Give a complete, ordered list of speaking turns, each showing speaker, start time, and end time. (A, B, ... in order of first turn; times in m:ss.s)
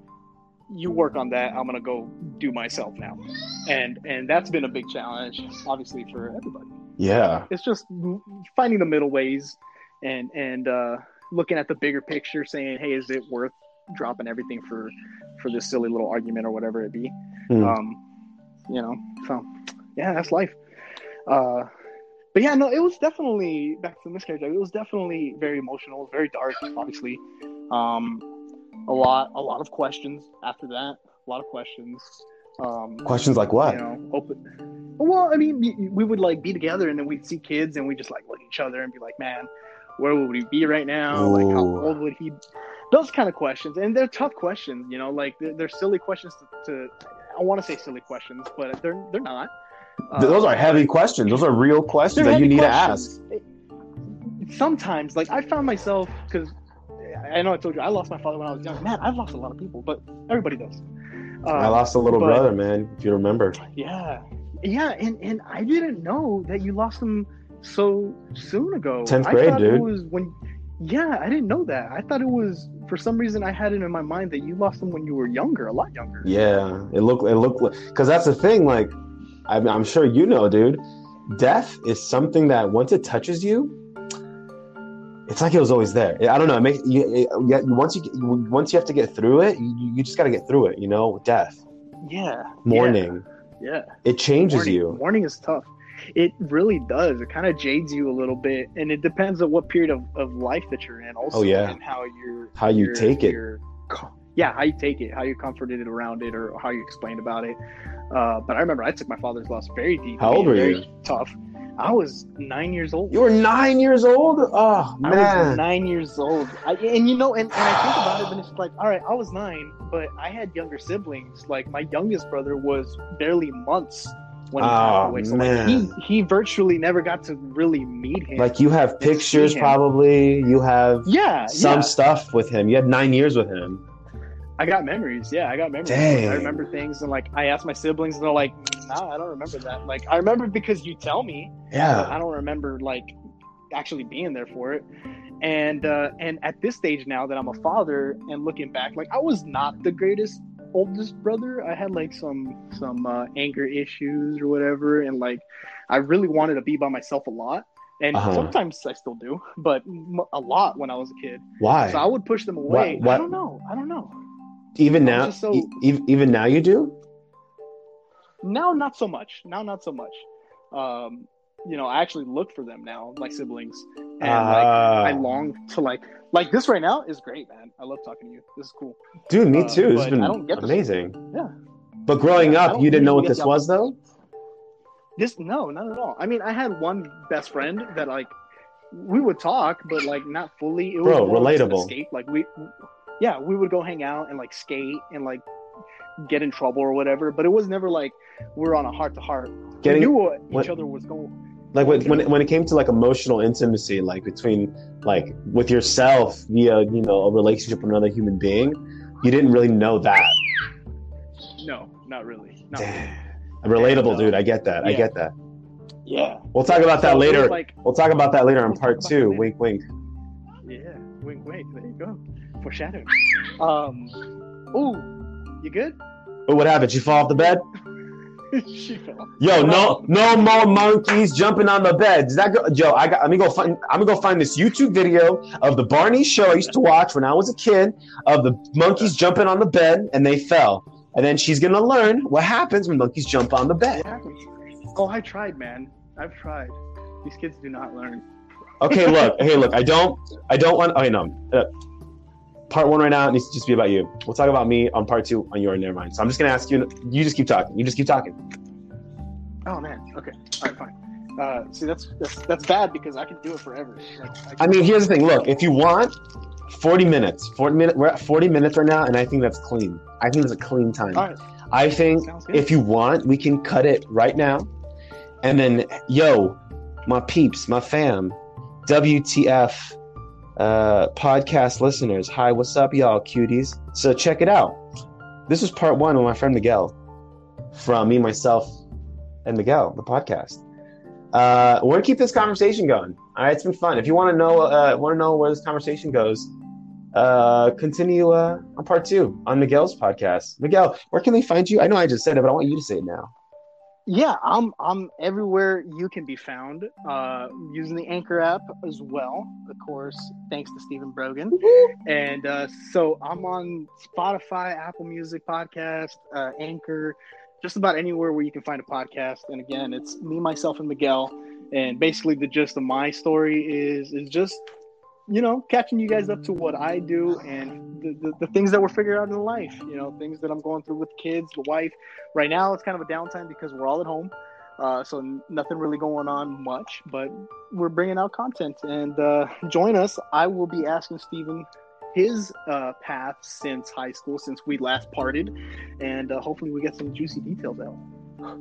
0:00.7-0:06.7 A
0:07.0-0:07.5 B
0:07.5-0:18.0 A
0:17.5-0:17.8 B
0:18.7-0:20.6 A
0:21.3-0:21.7 A
0:22.3-0:28.2 A
0:28.9-0:33.1 A
0:33.1-0:33.8 B
0:33.6-0:34.4 A
0:35.0-0:42.4 A
0:41.1-0:42.0 B
0:42.9-0:49.5 A
0:50.1-0:51.4 A
0:50.2-0:53.1 B
0:52.1-0:53.4 A
0:54.4-1:00.8 A
1:01.4-1:02.4 A
1:01.5-1:03.6 B
1:03.6-1:16.3 A
1:09.1-1:09.9 B
1:16.2-1:19.0 B
1:19.5-1:23.8 B
1:25.3-1:31.6 B
1:32.0-1:33.1 A
1:32.6-1:33.2 B
1:33.6-1:33.9 A
1:34.0-1:35.0 B
1:34.5-1:47.6 A
1:41.3-1:41.8 B
1:42.6-1:43.4 B
1:48.1-1:53.2 A
1:50.2-1:50.8 B
1:53.1-1:55.6 B
1:55.0-2:09.8 A
2:04.6-2:05.9 B
2:08.4-2:13.8 B
2:11.0-2:12.0 A
2:14.6-2:23.2 A
2:15.9-2:16.6 B
2:21.7-2:22.2 B
2:23.7-2:24.9 A
2:25.4-2:44.1 A
2:38.1-2:38.5 B
2:41.6-2:42.1 B
2:42.7-2:43.3 B
2:44.8-2:47.0 B
2:45.0-2:45.7 A
2:48.4-2:59.0 A
2:54.2-2:55.2 B
2:59.3-3:01.2 B
2:59.5-3:01.5 A
3:02.1-3:04.0 B
3:02.3-3:03.6 A
3:05.2-3:08.3 A
3:08.9-3:15.4 A
3:11.0-3:11.9 B
3:16.2-3:22.3 A
3:19.8-3:20.7 B
3:21.7-3:30.4 B
3:31.6-3:33.2 A
3:32.8-3:35.3 B
3:33.8-3:35.1 A
3:36.1-3:37.8 A
3:36.5-3:39.8 B
3:38.7-3:39.5 A
3:40.6-3:44.2 A
3:44.7-3:45.1 A
3:45.6-3:46.0 A
3:46.5-3:47.6 B
3:48.5-3:50.8 A
3:49.4-4:04.0 B
4:03.9-4:08.2 A
4:08.8-4:11.7 B
4:08.9-4:09.4 A
4:12.7-4:18.4 B
4:19.7-4:25.0 A
4:24.6-4:26.1 B
4:26.7-4:34.7 B
4:32.2-4:32.7 A
4:35.4-4:40.0 B
4:40.6-4:44.8 B
4:45.5-4:47.0 B
4:47.7-4:48.7 B
4:49.4-4:50.6 B
4:51.3-4:56.5 B
4:57.1-5:03.3 B
5:04.1-5:24.6 A
5:11.6-5:11.9 B
5:25.3-5:48.0 A